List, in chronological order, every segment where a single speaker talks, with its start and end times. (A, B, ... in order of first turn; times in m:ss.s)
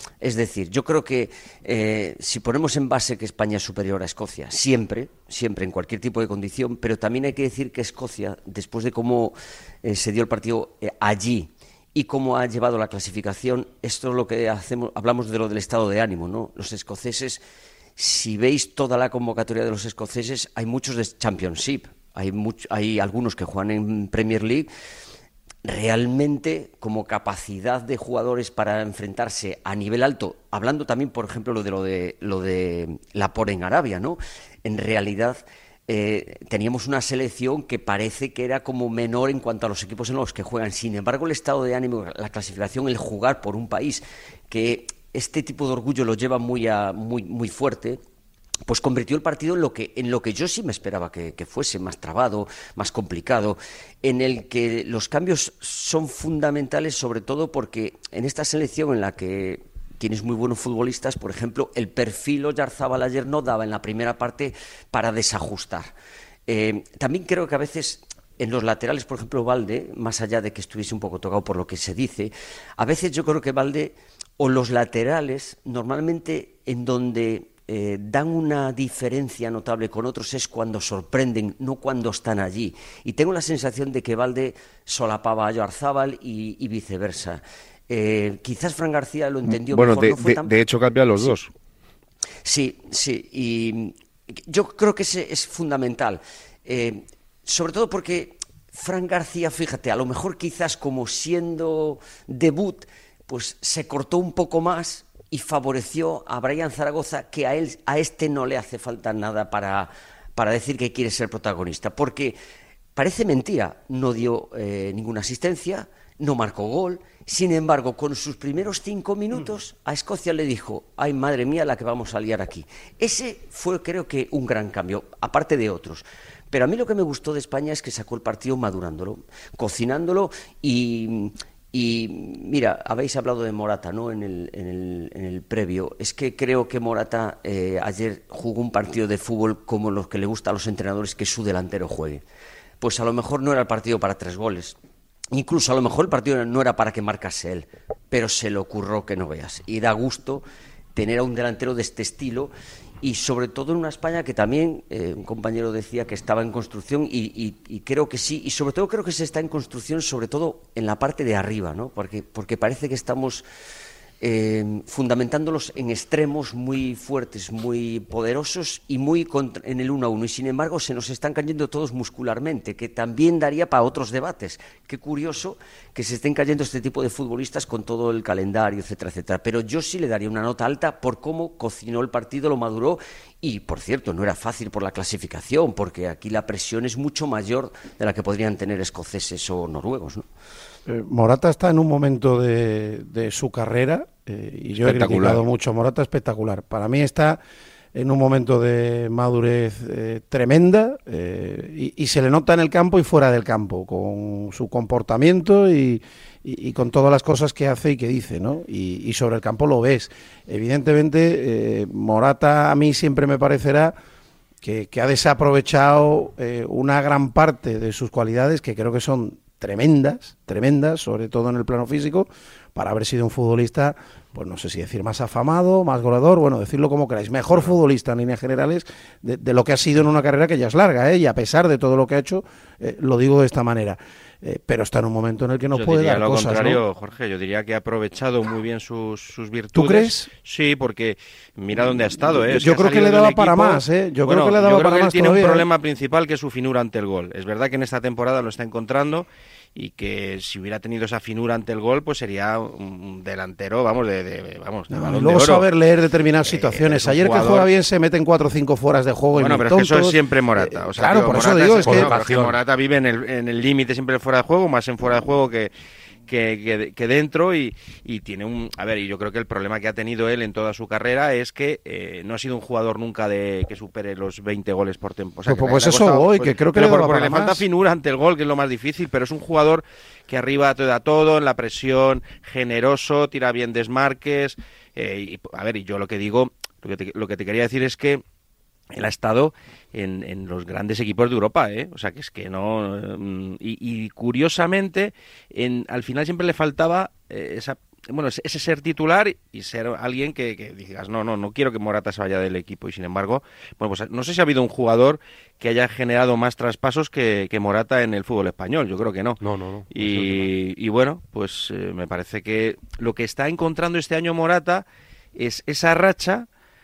0:00.2-0:17.4 A
0:18.0-0:24.7 A
0:25.6-0:48.0 A
0:48.6-1:05.9 A
1:06.5-1:30.6 A
1:29.6-1:31.5 B
1:32.4-1:33.9 A
1:34.4-1:52.4 A
1:53.0-2:22.2 A
2:22.8-2:24.8 A
2:25.3-2:32.5 A
2:33.0-2:43.4 A
2:44.2-3:10.3 A
3:10.8-3:17.4 C
3:14.7-3:15.4 B
3:17.9-3:33.9 C
3:34.6-3:56.8 C
3:55.7-4:15.6 D
3:59.7-4:00.3 C
4:01.7-4:05.7 C
4:14.9-4:22.1 C
4:16.4-4:17.7 D
4:19.3-4:25.7 D
4:21.8-4:22.6 E
4:26.3-4:48.2 D
4:35.4-4:37.6 C
4:48.9-5:09.4 D
5:09.4-5:10.5 E
5:09.9-5:16.5 D